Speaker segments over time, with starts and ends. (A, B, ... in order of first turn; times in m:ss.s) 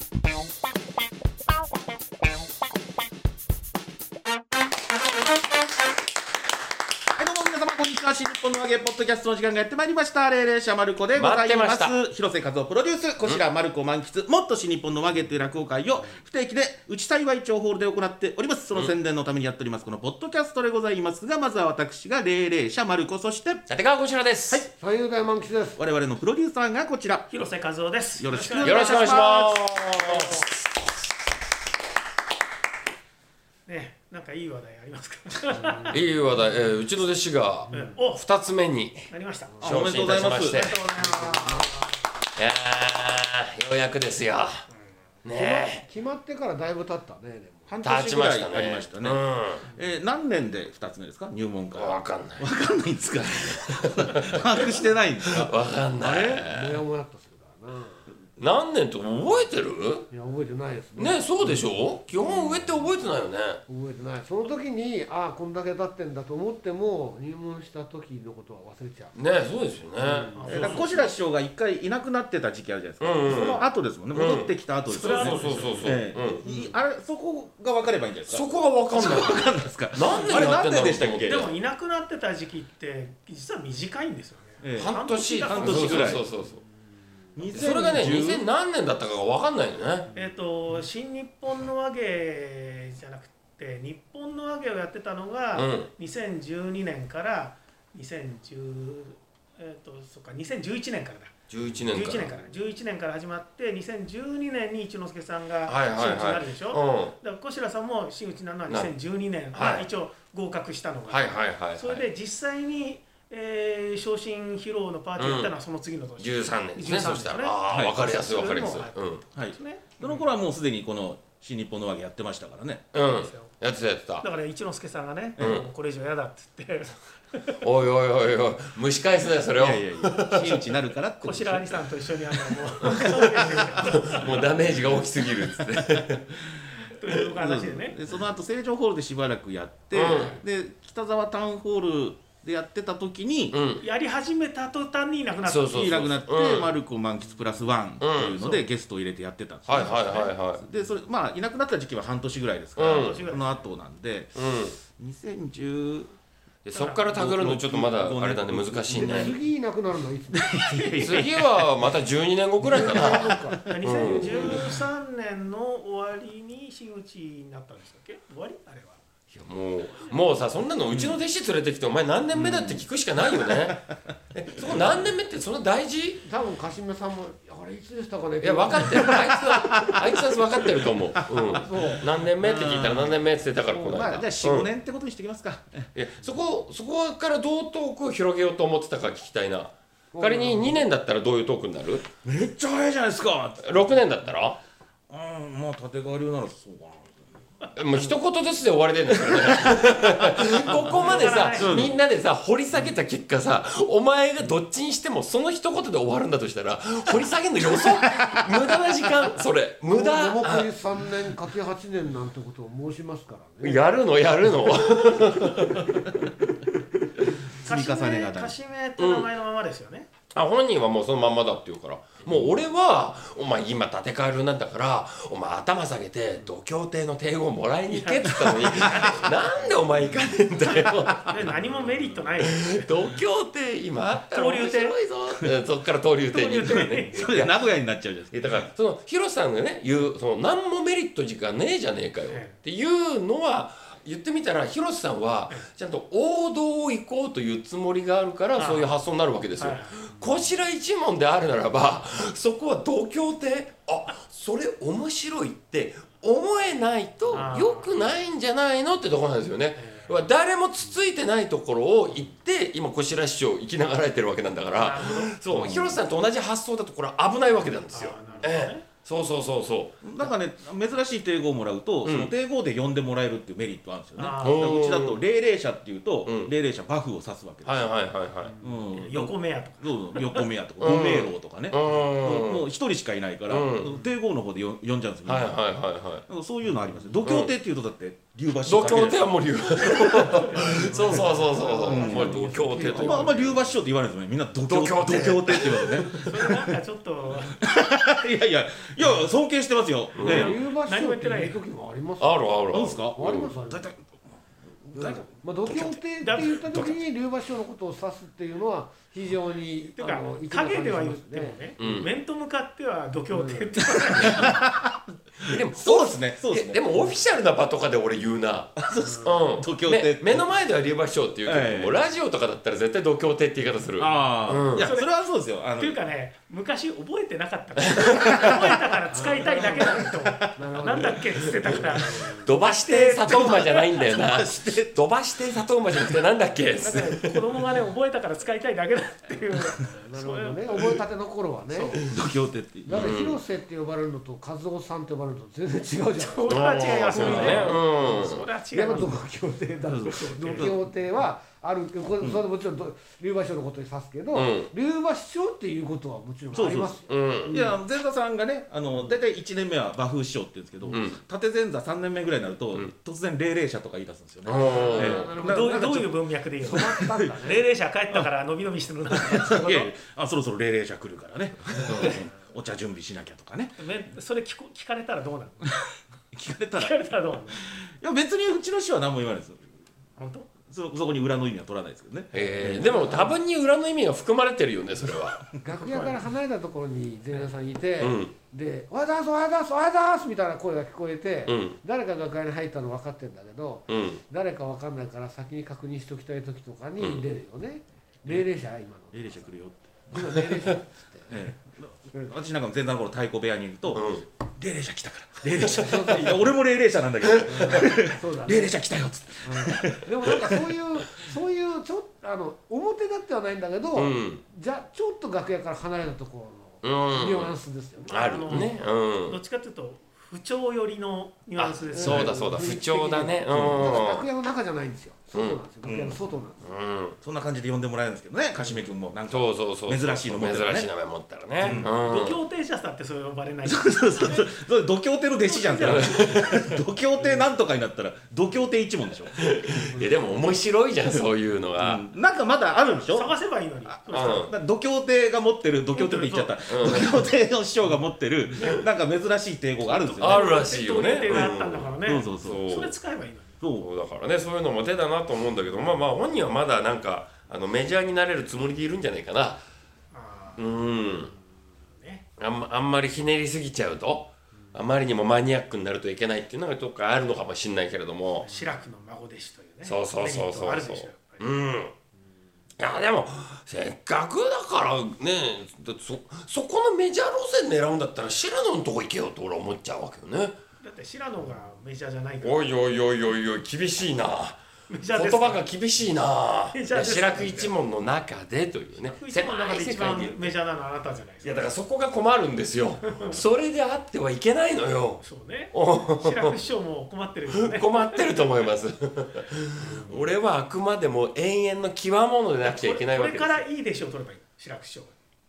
0:07.2-0:23.6 A
0:11.2-0:12.0 B
0:23.7-0:24.6 B
0:24.8-0:25.8 C
0:25.8-0:27.3 A
0:27.3-0:29.1 D
0:28.2-0:29.6 A
0:28.6-0:30.6 B
0:33.7-0:36.0 D
0:35.6-0:36.0 C
0:35.9-0:39.1 B
0:37.7-0:38.2 D
0:39.1-0:39.6 D
0:39.6-0:40.8 A
0:39.6-0:40.8 B
0:40.3-0:41.9 D
0:41.2-0:41.6 C
0:42.4-0:44.7 B
0:45.2-0:45.8 B
0:45.3-0:47.7 C
0:47.7-0:55.5 A
0:47.8-0:49.7 B
0:51.7-0:52.5 B
0:53.8-0:54.4 B
0:55.3-0:56.8 B
0:56.0-0:58.0 C
0:58.4-1:00.1 B
1:00.1-1:01.6 C
1:01.0-1:03.6 B
1:03.7-1:09.2 C
1:09.2-1:10.8 B
1:10.0-1:10.8 C
1:10.4-1:11.2 D
1:10.5-1:18.5 A
1:13.0-1:16.7 B
1:14.9-1:16.0 D
1:18.3-1:21.5 B
1:19.0-1:21.5 A
1:21.2-1:26.2 D
1:24.6-1:26.2 A
1:24.8-1:26.6 B
1:27.4-1:28.4 A
1:27.4-1:30.1 B
1:30.1-1:41.4 D
1:35.6-1:35.9 B
1:41.5-1:42.3 B
1:41.9-2:00.2 D
1:45.7-1:47.2 B
1:49.5-1:49.9 B
1:51.1-1:52.0 B
1:55.2-1:55.5 B
1:56.2-1:59.2 B
1:57.7-1:58.0 A
1:59.3-2:02.9 A
2:02.9-2:04.2 B
2:03.0-2:03.5 D
2:04.2-2:07.0 D
2:05.4-2:05.6 A
2:05.4-2:05.7 B
2:07.6-2:10.7 B
2:09.6-2:11.9 A
2:11.2-2:14.3 D
2:12.9-2:16.2 B
2:12.9-2:14.9 A
2:16.8-2:18.0 D
2:17.1-2:23.6 A
2:19.9-2:20.4 B
2:23.5-2:23.8 B
2:23.8-2:26.1 D
2:25.5-2:26.7 B
2:25.7-2:34.4 A
2:28.0-2:28.6 B
2:29.7-2:30.6 B
2:32.8-2:33.2 B
2:32.8-2:33.5 D
2:34.4-2:34.8 B
2:34.9-2:36.1 A
2:36.6-2:39.4 B
2:36.7-2:37.1 D
2:37.1-2:39.4 A
2:38.9-2:41.0 C
2:40.4-2:41.9 A
2:41.0-2:44.7 B
2:42.6-2:43.6 A
2:42.7-2:44.7 C
2:43.6-2:49.0 D
2:49.3-2:56.2 B
2:50.9-2:51.2 A
2:52.3-2:53.6 A
2:56.2-2:59.8 C
2:58.4-3:04.7 B
2:59.1-3:00.0 A
3:01.3-3:02.1 C
3:02.4-3:03.2 A
3:03.7-3:05.9 A
3:06.0-3:12.1 B
3:10.1-3:10.9 C
3:12.2-3:14.0 A
3:13.6-3:14.6 B
3:15.1-3:17.2 A
3:17.8-3:30.7 B
3:19.3-3:22.0 A
3:20.6-3:22.0 D
3:29.9-3:33.9 C
3:33.6-3:36.1 B
3:37.6-3:38.6 A
3:37.6-3:40.1 D
3:39.0-3:39.3 B
3:40.3-3:51.6 B
3:47.9-3:49.5 D
3:48.5-3:49.1 A
3:51.3-3:52.9 D
3:52.4-3:57.5 B
3:54.3-3:55.0 D
3:56.3-3:57.3 D
3:56.7-3:58.7 A
3:58.3-4:30.0 B
4:02.3-4:02.6 D
4:08.6-4:09.0 D
4:09.6-4:10.0 D
4:17.3-4:17.9 D
4:19.8-4:20.2 D
4:24.7-4:25.4 D
4:25.5-4:26.0 A
4:27.9-4:28.9 D
4:30.0-4:37.9 A
4:32.0-4:32.3 B
4:34.2-4:34.8 D
4:34.4-4:35.2 B
4:36.2-4:36.5 B
4:37.6-4:38.5 B
4:38.6-4:45.6 A
4:38.9-4:40.4 D
4:40.8-4:42.7 B
4:43.5-4:44.0 B
4:45.2-4:46.3 B
4:46.3-4:49.3 A
4:47.2-4:47.5 B
4:48.6-4:53.6 B
4:50.2-4:50.5 A
4:50.3-4:52.2 D
4:50.5-4:53.3 C
4:51.9-4:56.8 A
4:54.7-4:56.2 B
4:56.2-4:57.6 D
4:57.5-5:00.6 A
5:00.2-5:00.6 B
5:00.2-5:01.6 D
5:00.3-5:02.6 C
5:02.2-5:03.5 B
5:02.7-5:04.0 A
5:03.2-5:03.9 C
5:04.9-5:07.0 A
5:04.9-5:11.6 C
5:06.2-5:06.6 D
5:10.0-5:14.7 D
5:11.8-5:12.1 B
5:11.8-5:12.1 A
5:13.3-5:13.8 C
5:14.0-5:14.8 A
5:15.4-5:24.9 B
5:15.5-5:17.1 A
5:18.8-5:20.6 A
5:19.0-5:19.6 C
5:21.5-5:22.0 A
5:24.0-5:26.0 A
5:24.8-5:25.1 D
5:25.8-5:33.8 D
5:27.9-5:28.5 B
5:28.3-5:28.7 A
5:29.1-5:32.5 C
5:29.9-5:30.6 A
5:31.7-5:37.5 B
5:33.2-5:35.0 A
5:36.8-5:41.0 D
5:39.8-5:42.1 C
5:41.7-5:42.0 D
5:42.1-5:43.1 A
5:42.8-5:57.8 C
5:42.9-5:43.4 B
5:46.2-5:49.2 D
5:46.5-5:48.4 B
5:49.9-5:50.8 A
5:50.1-5:50.7 D
5:54.3-5:54.7 B
5:56.5-5:57.0 A
5:56.9-5:57.6 B
5:57.5-6:06.1 A
6:00.9-6:01.2 B
6:04.5-6:05.4 B
6:04.6-6:07.6 C
6:05.0-6:09.9 D
6:06.7-6:07.4 A
6:09.1-6:13.8 A
6:13.8-6:15.6 D
6:16.3-6:17.0 A
6:16.8-6:17.6 D
6:17.6-6:19.6 A
6:20.2-6:20.5 D
6:20.6-6:23.2 A
6:22.3-6:25.4 B
6:22.6-6:23.4 C
6:25.4-6:26.1 A
6:25.6-6:39.5 C
6:28.0-6:28.3 B
6:31.5-6:31.8 B
6:33.9-6:34.2 B
6:37.0-6:37.2 B
6:39.1-6:40.4 A
6:40.1-6:41.5 C
6:41.3-6:50.7 A
6:43.9-6:44.2 B
6:45.5-6:46.6 C
6:47.2-6:47.9 B
6:47.5-6:48.8 C
6:49.4-6:58.7 C
6:54.0-6:54.4 B
6:56.8-6:57.5 B
6:58.1-7:02.4 D
6:58.1-6:59.4 B
7:01.6-7:04.3 B
7:01.9-7:06.7 C
7:03.5-7:04.0 A
7:05.3-7:05.6 B
7:05.8-7:06.2 A
7:06.6-7:07.2 B
7:07.2-7:10.9 A
7:09.3-7:12.4 B
7:11.6-7:11.9 A
7:11.8-7:14.5 D
7:13.7-7:20.1 A
7:15.4-7:16.6 D
7:15.8-7:16.8 B
7:19.3-7:22.0 B
7:21.8-7:23.3 A
7:22.8-7:24.5 D
7:23.9-7:30.6 A
7:24.1-7:24.5 B
7:25.9-7:26.5 D
7:26.7-7:27.2 B
7:29.8-7:33.6 D
7:30.2-7:32.9 B
7:32.0-7:32.7 A
7:33.6-7:33.9 A
7:33.8-7:39.6 B
7:40.1-7:40.8 D
7:40.6-7:41.3 B
7:42.0-7:42.2 D
7:42.4-7:48.5 B
7:48.4-7:51.5 D
7:49.8-7:51.9 B
7:52.8-8:00.6 B
8:00.8-8:02.7 D
8:02.4-8:04.6 B
8:04.9-8:05.6 D
8:05.1-8:10.6 B
8:06.7-8:07.7 D
8:09.0-8:11.7 D
8:11.4-8:16.6 B
8:13.1-8:13.4 D
8:15.2-8:18.3 D
8:17.5-8:23.6 B
8:19.8-8:20.3 D
8:22.6-8:25.2 D